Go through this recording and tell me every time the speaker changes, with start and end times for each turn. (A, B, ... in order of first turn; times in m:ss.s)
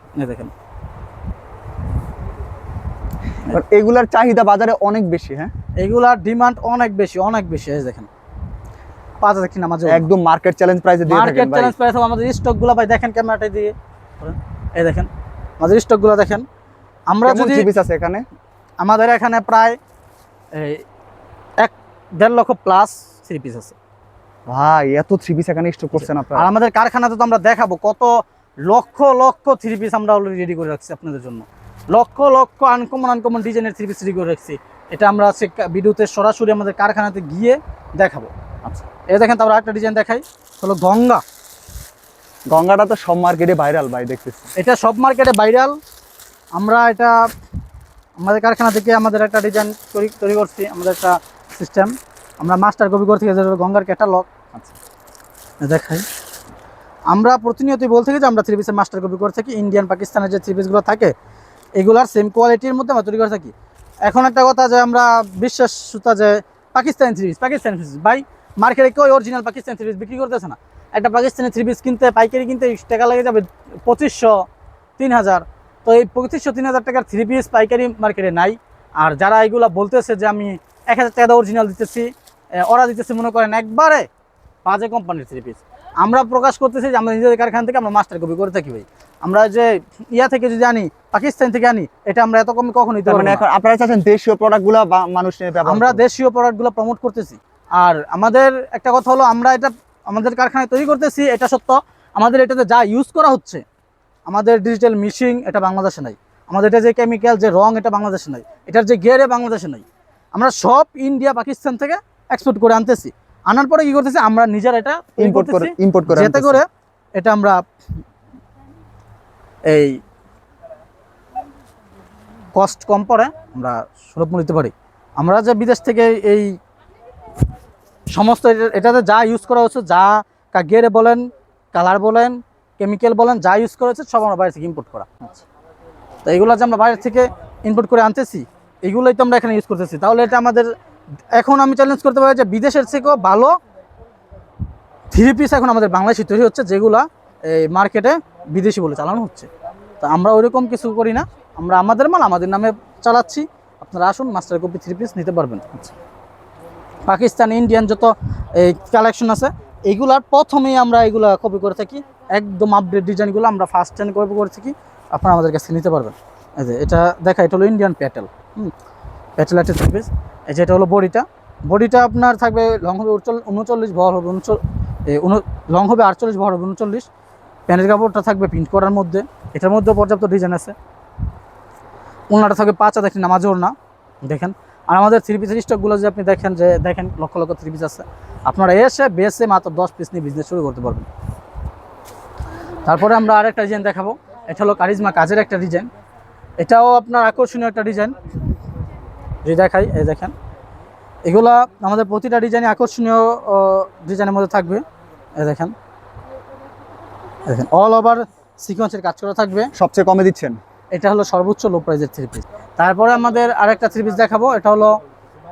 0:00.2-0:00.5 A
0:03.4-0:05.5 B
0:05.8-0:08.1 A
0:09.2-0:10.1 A
0:09.9-0:11.7 B
0:11.1-0:16.5 A
0:17.1-0:17.7 A
0:17.2-0:18.3 B
0:18.8-0:19.8 A
0:20.5-0:20.8 A
0:21.6-0:23.8 A
0:24.5-0:26.5 B
0:26.0-0:38.3 A
0:39.1-0:41.2 A
0:42.5-0:44.5 B
0:44.6-0:45.8 A
0:46.6-0:47.3 A
0:48.2-0:54.3 A
0:55.6-0:56.1 A
0:57.1-1:01.1 A
1:01.8-1:03.5 A
1:04.0-1:14.5 A
1:15.0-1:24.1 A
1:24.6-1:33.4 A
1:33.1-1:36.0 B
1:35.7-1:43.6 A
1:44.3-1:57.6 A
1:55.2-1:56.6 B
1:59.6-2:00.0 A
2:02.5-2:06.6 A
2:08.1-2:15.1 A
2:16.2-2:20.7 A
2:21.3-2:23.6 A
2:25.1-2:29.5 A
2:30.0-2:35.9 A
2:37.1-2:48.7 A
2:49.4-2:57.1 A
2:57.7-3:00.8 A
3:02.3-3:11.1 A
3:12.8-3:15.9 A
3:16.6-3:18.2 A
3:19.4-3:20.3 A
3:21.2-3:24.8 A
3:25.4-3:25.8 A
3:27.4-3:29.7 A
3:29.8-3:30.6 B
3:30.9-3:35.0 A